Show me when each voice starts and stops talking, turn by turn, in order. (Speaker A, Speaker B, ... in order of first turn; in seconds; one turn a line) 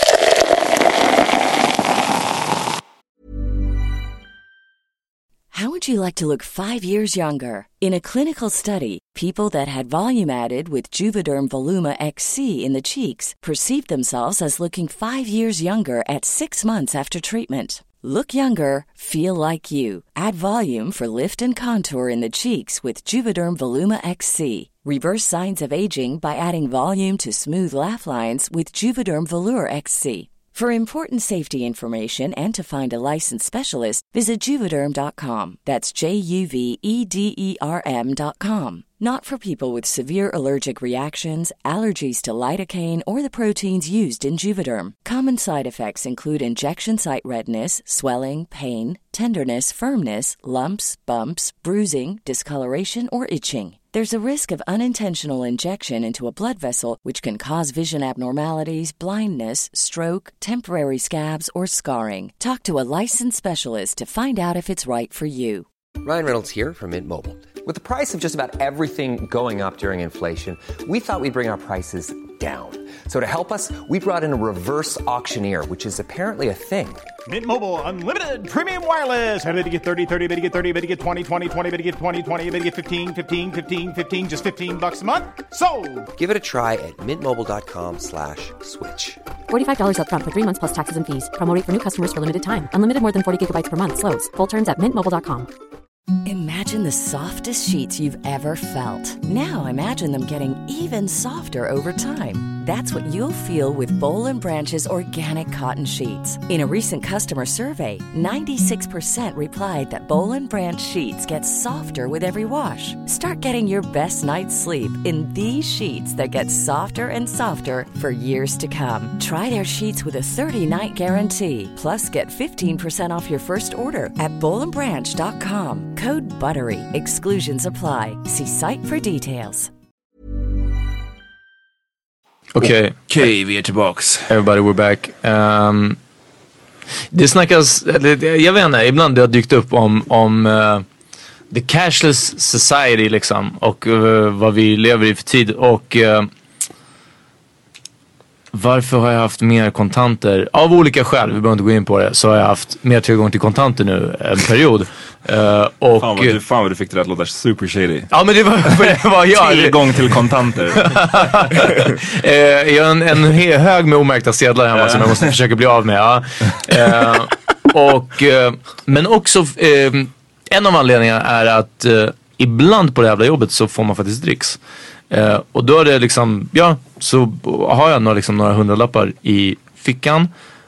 Speaker A: 5.5-65.7
Speaker B: 66.0-77.0
Speaker C: 82.2-86.0
Speaker B: 86.1-89.2
Speaker D: 89.5-95.5
Speaker A: 96.2-129.7
Speaker E: 132.6-133.0
Speaker F: 132.6-134.3
Speaker E: 134.3-136.0
Speaker E: 137.1-140.8
Speaker E: 141.5-146.3
Speaker E: 148.5-156.4
Speaker F: 156.0-158.1
Speaker E: 158.1-160.1
Speaker F: 158.7-161.1
Speaker E: 160.8-174.6
Speaker F: 164.7-165.3
Speaker E: 175.1-180.3